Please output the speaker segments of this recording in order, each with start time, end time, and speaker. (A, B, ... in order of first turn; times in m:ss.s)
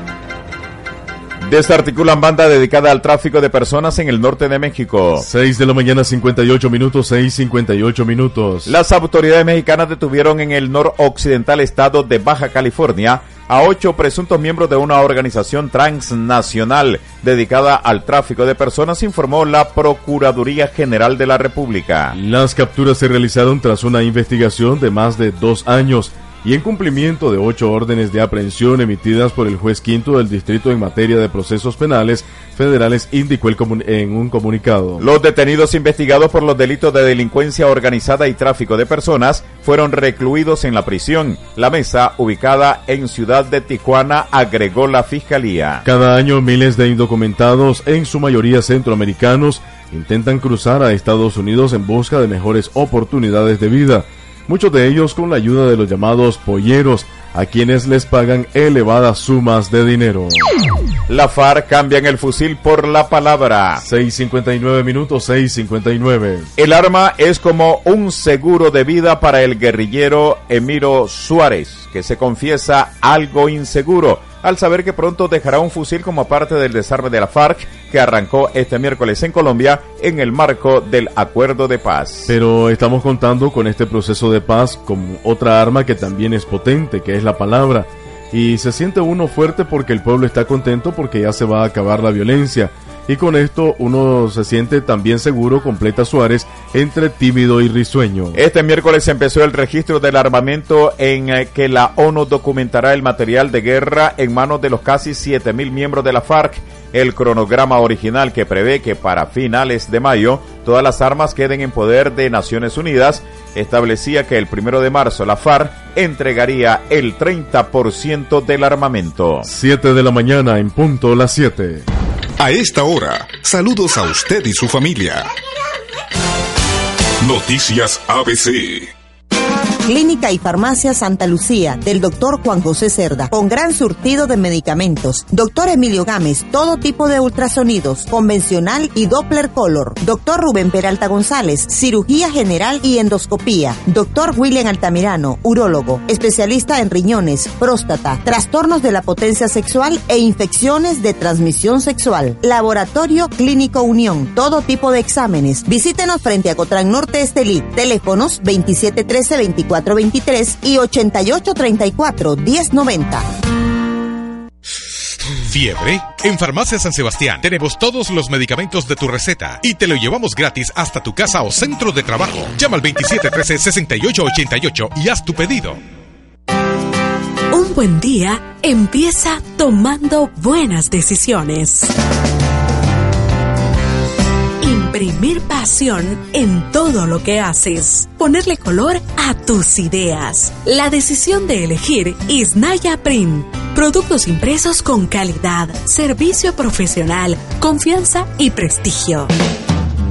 0:01.4-0:05.2 A
0:05.2-0:08.7 B
0:08.6-0:22.2 A
0:22.1-0:35.0 B
0:35.0-0:45.8 A
0:45.8-1:00.4 B
1:01.1-1:03.8 A
1:03.8-1:06.5 B
1:06.6-1:22.3 A
1:22.3-1:38.4 B
1:38.3-1:59.5 A
1:59.4-2:01.8 B
2:02.4-2:05.3 C
2:07.2-2:08.9 C
2:09.8-2:43.2 D
2:45.4-2:55.8 E
2:57.5-3:01.9 F
3:04.6-3:19.3 F